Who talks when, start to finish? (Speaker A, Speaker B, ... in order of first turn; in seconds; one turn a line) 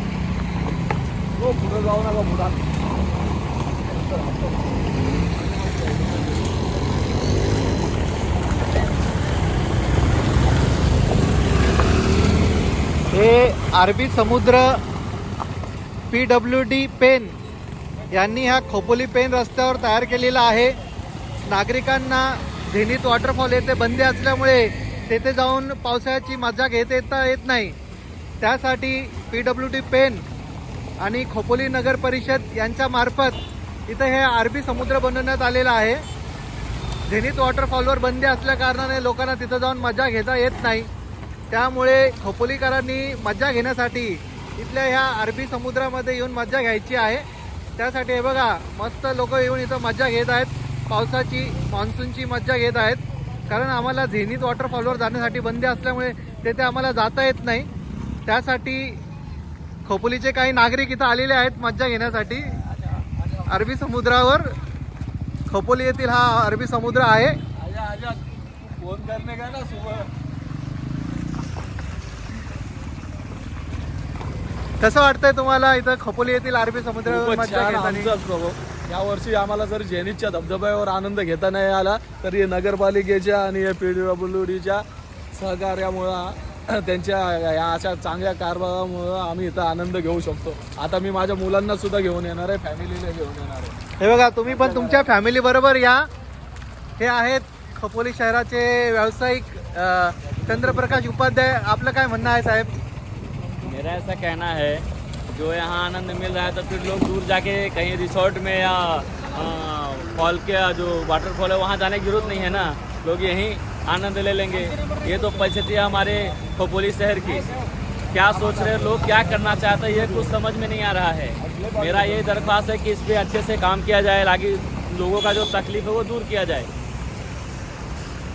Speaker A: 1.4-2.7
Speaker A: 4.0-4.5
Speaker A: 5.4-6.5
Speaker B: 13.1-14.8
Speaker B: 16.1-17.4
Speaker B: 18.1-20.7
Speaker B: 21.4-27.8
Speaker B: 28.4-30.2
Speaker B: 31.0-36.0
Speaker B: 37.1-40.9
Speaker B: 41.5-47.2
Speaker B: 47.8-57.7
Speaker B: 58.3-59.0
Speaker B: 59.9-62.5
Speaker B: 63.5-64.5
Speaker B: 65.5-67.4
Speaker A: 67.5-70.1
Speaker B: 74.8-78.1
Speaker A: 77.0-93.8
Speaker B: 94.0-96.0
Speaker A: 94.5-95.0
Speaker B: 97.0-102.7
Speaker A: 100.5-101.0
Speaker C: 103.6-117.5
Speaker C: 118.1-126.7
Speaker A: 118.1-120.4
Speaker A: 121.4-122.6